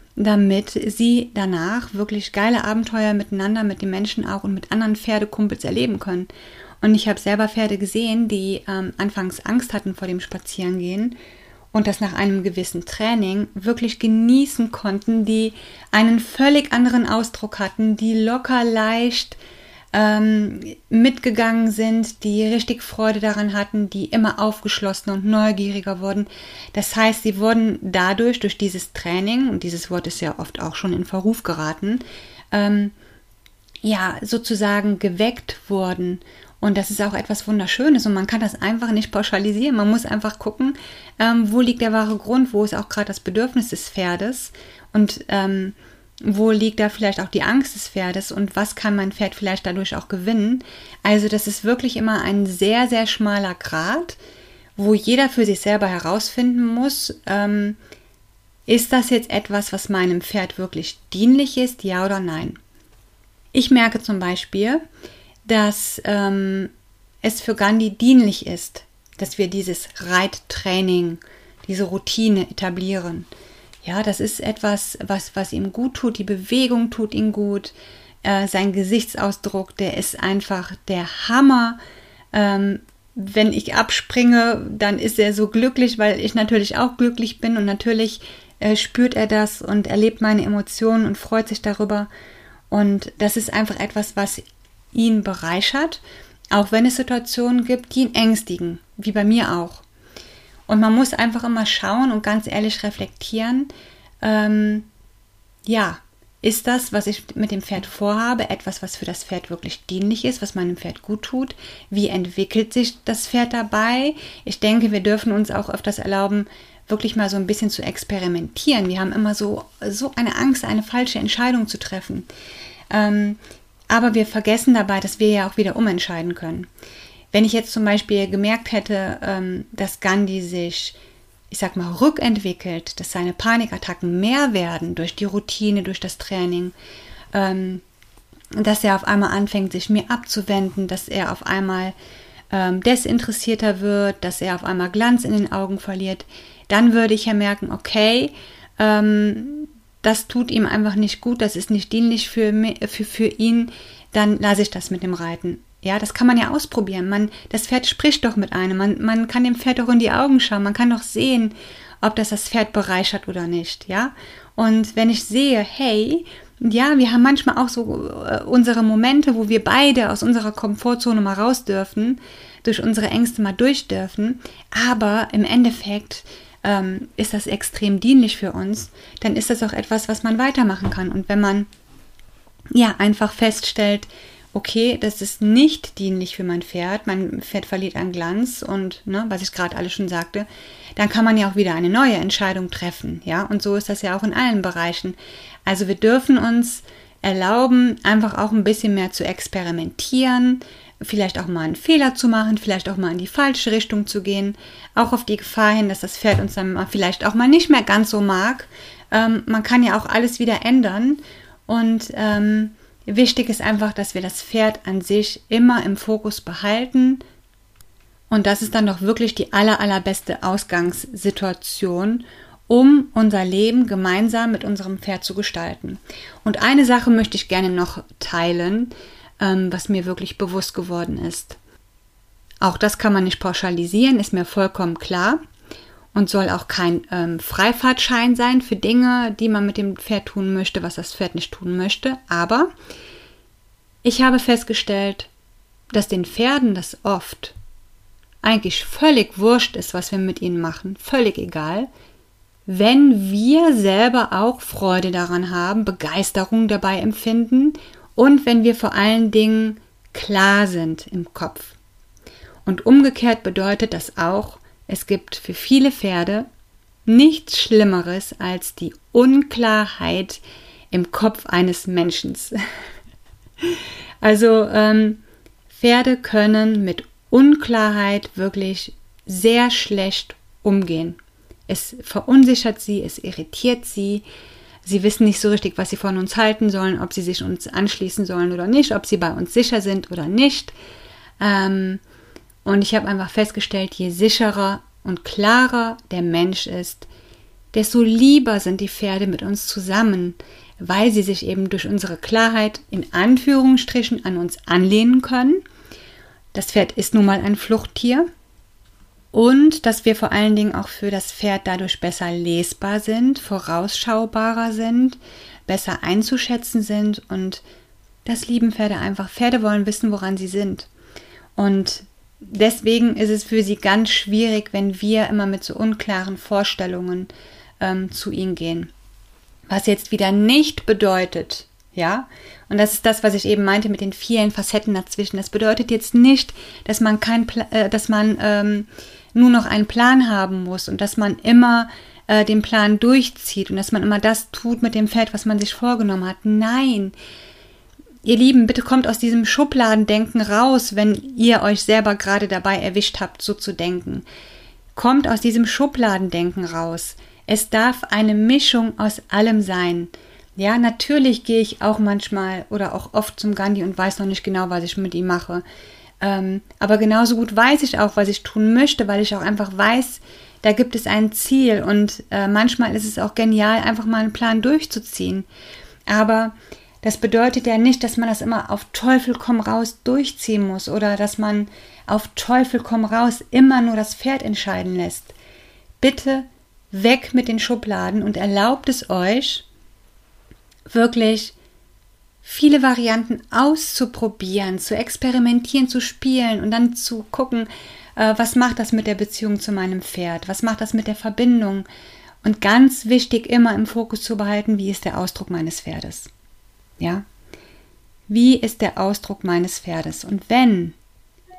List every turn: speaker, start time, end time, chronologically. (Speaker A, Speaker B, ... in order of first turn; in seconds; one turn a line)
Speaker A: 0.2-6.3
Speaker A: 6.8-11.2
Speaker A: 11.7-19.4
Speaker A: 19.9-32.9
Speaker A: 33.8-54.2
Speaker A: 54.8-57.8
Speaker A: 58.7-62.6
Speaker A: 63.5-64.8
Speaker A: 65.5-66.7
Speaker A: 67.2-73.3
Speaker A: 73.8-81.8
Speaker A: 82.3-92.1
Speaker A: 92.7-94.4
Speaker A: 94.9-99.8
Speaker A: 100.7-103.7
Speaker A: 104.2-104.9
Speaker A: 105.7-122.3
Speaker A: 122.9-123.4
Speaker A: 123.9-126.7
Speaker A: 127.3-131.0
Speaker A: 131.5-136.7
Speaker A: 137.3-137.8
Speaker A: 138.6-141.9
Speaker A: 142.5-181.7
Speaker A: 182.7-217.2
Speaker A: 218.3-231.6
Speaker A: 232.6-235.4
Speaker A: 236.1-242.7
Speaker A: 244.0-245.3
Speaker A: 245.9-247.6
Speaker A: 248.4-251.9
Speaker A: 252.7-261.8
Speaker A: 262.6-266.5
Speaker A: 267.1-272.5
Speaker A: 273.6-284.2
Speaker A: 284.8-290.7
Speaker A: 291.4-292.0
Speaker A: 292.6-297.1
Speaker A: 297.7-305.6
Speaker A: 306.5-308.3
Speaker A: 309.3-317.6
Speaker A: 318.2-320.9
Speaker A: 321.6-328.9
Speaker A: 329.7-347.1
Speaker A: 348.2-354.3
Speaker A: 354.9-365.6
Speaker A: 366.2-375.5
Speaker A: 376.1-385.3
Speaker A: 386.0-389.6
Speaker A: 390.9-391.5
Speaker A: 392.4-401.9
Speaker A: 402.4-406.3
Speaker A: 407.0-407.2
Speaker A: 408.3-411.0